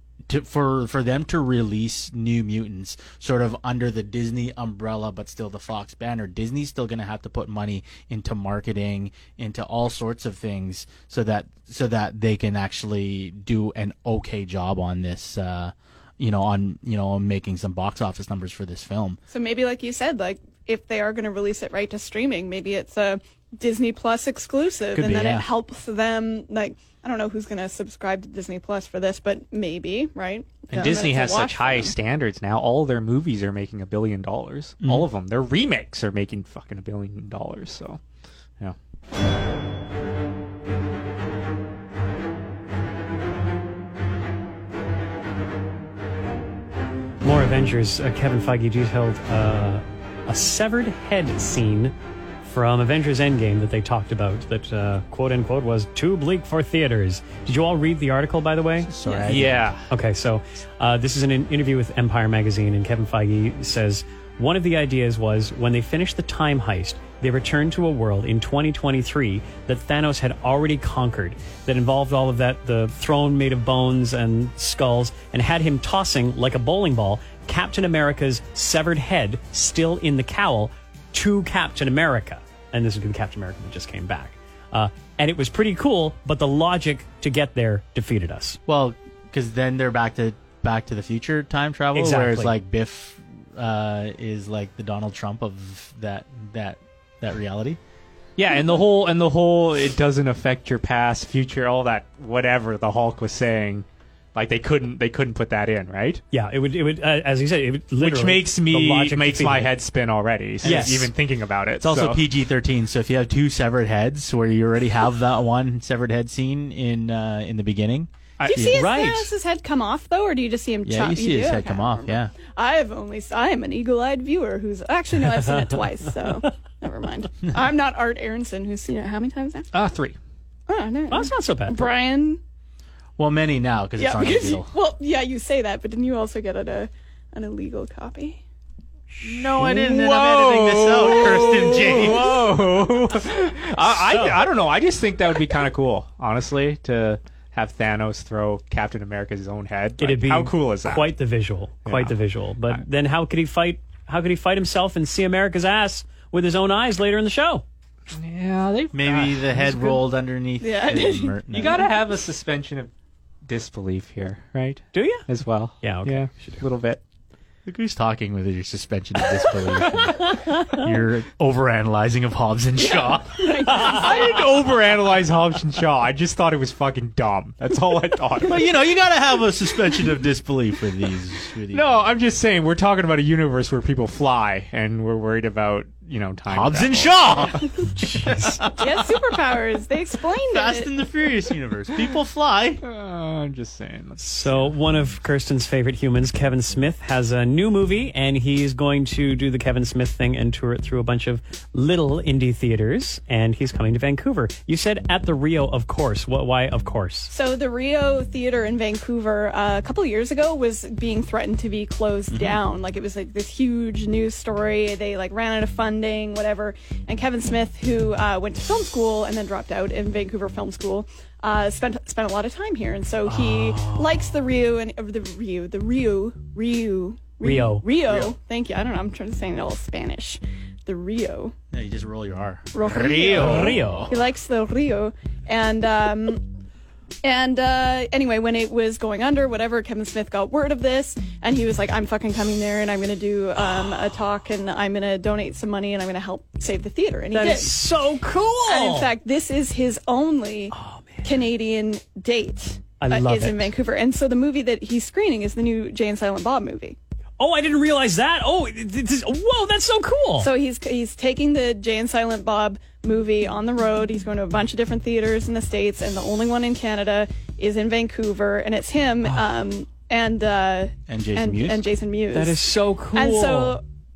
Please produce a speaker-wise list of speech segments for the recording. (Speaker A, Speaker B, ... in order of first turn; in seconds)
Speaker A: 0.3-19.2, 24.9-25.5, 30.7-30.9, 34.8-35.1, 58.8-59.7, 88.7-97.8, 110.6-111.0, 111.8-118.9, 120.8-122.3, 133.2-134.7, 139.2-142.4, 158.9-161.9, 167.7-174.4, 178.4-181.9, 186.5-189.2, 190.5-192.8, 212.3-212.6, 228.0-228.3, 231.7-234.2, 271.1-271.9
Speaker B: 19.3-31.9, 118.4-129.7, 130.7-132.4, 134.0-138.4, 160.6-161.4, 172.8-174.4, 188.8-190.9, 207.3-231.5, 232.7-236.5, 237.2-247.8, 248.7-257.0, 260.4-272.6, 273.1-273.8
Speaker C: 30.7-38.0, 59.2-59.9, 98.4-106.2, 108.0-112.2, 118.4-118.7, 129.7-130.2, 139.4-151.1, 151.8-152.1, 158.1-160.0, 161.5-162.9, 163.4-167.0, 173.7-178.7, 181.7-187.7, 192.8-194.7
Speaker D: 47.2-58.9, 59.9-88.6, 91.9-92.5, 106.3-109.7, 110.6-111.1, 118.7-119.3, 131.1-131.9, 150.0-157.6, 164.9-165.2, 165.8-166.6, 170.3-170.8, 187.9-188.6, 194.2-207.3, 223.2-224.4, 227.4-227.8, 233.3-234.1, 247.3-249.1, 250.7-251.2, 253.0-253.7, 257.4-260.5, 272.3-273.8